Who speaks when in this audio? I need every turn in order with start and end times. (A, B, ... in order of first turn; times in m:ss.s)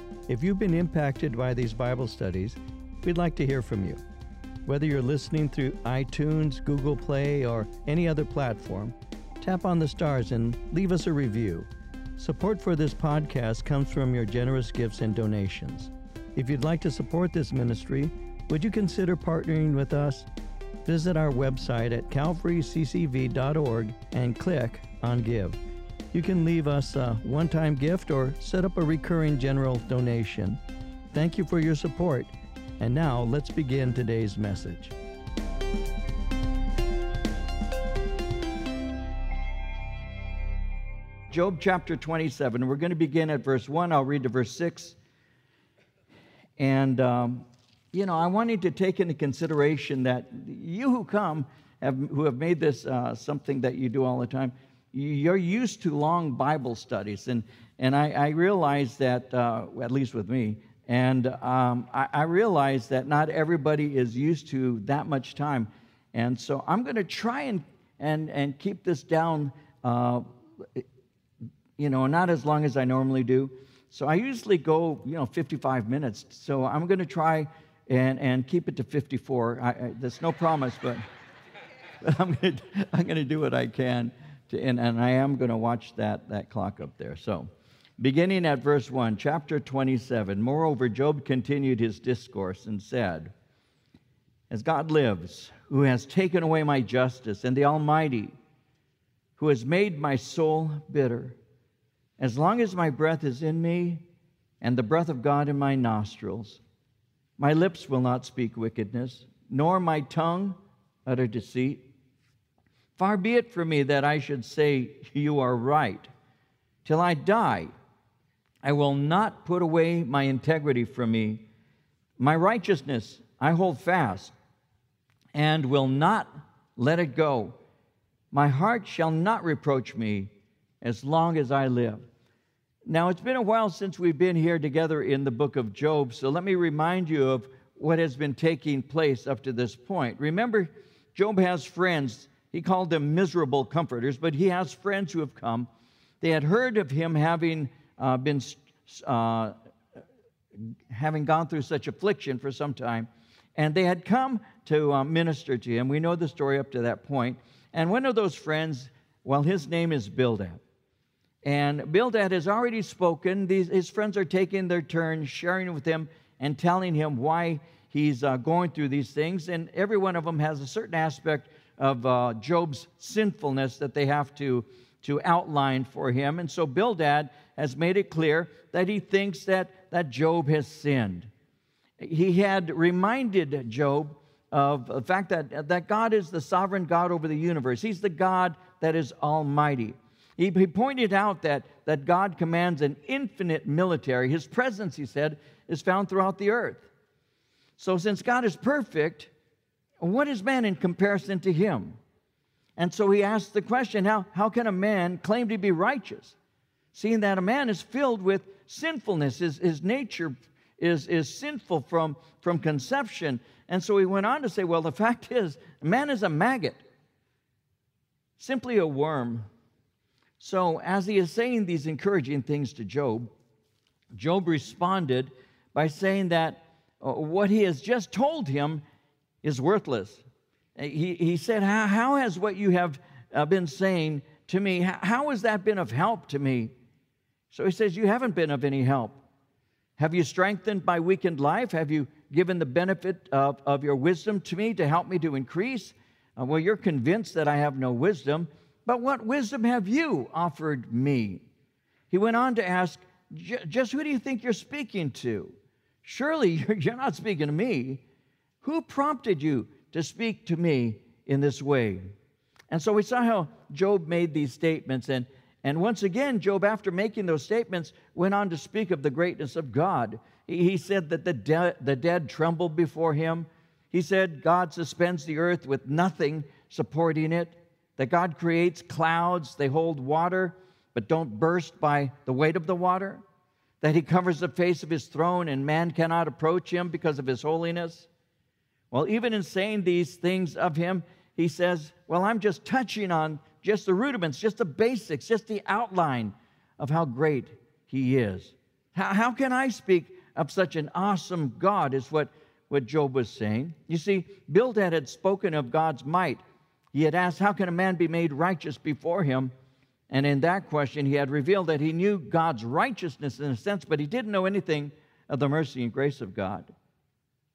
0:00.3-0:04.0 A
0:04.6-0:20.3 A
0:20.8-0:25.6 A
0:26.1-0:30.6 A
0:31.1-0:34.9 A
0:41.3-0:45.0 A
0:46.6-1:10.8 A
1:11.8-1:21.0 A
1:22.0-1:33.3 A
1:34.5-1:38.3 A
1:39.4-1:41.4 A
1:42.2-1:44.0 A
1:44.6-1:46.6 A
1:47.4-1:51.8 A
1:53.0-1:56.1 A
1:56.8-1:57.7 A
1:58.6-2:01.4 A
2:02.2-2:04.3 A
2:05.3-2:07.6 A
2:08.3-2:12.0 A
2:12.8-2:25.7 A
2:26.2-2:29.6 A
2:30.6-2:40.6 A
2:41.4-3:01.3 A
3:02.0-3:16.9 A
3:17.8-3:19.3 A
3:20.0-3:22.0 A
3:22.8-3:26.4 A
3:26.9-3:36.8 A
3:38.4-3:39.5 A
3:40.4-3:43.3 A
3:44.1-3:48.8 A
3:49.4-3:50.2 A
3:50.8-3:56.7 A
3:57.5-3:59.2 A
4:00.0-4:11.4 A
4:12.1-4:18.0 A
4:18.6-4:22.1 A
4:22.7-4:43.2 A
4:43.8-4:48.1 A
4:48.9-5:06.4 A
5:06.9-5:09.5 A
5:10.1-5:16.7 A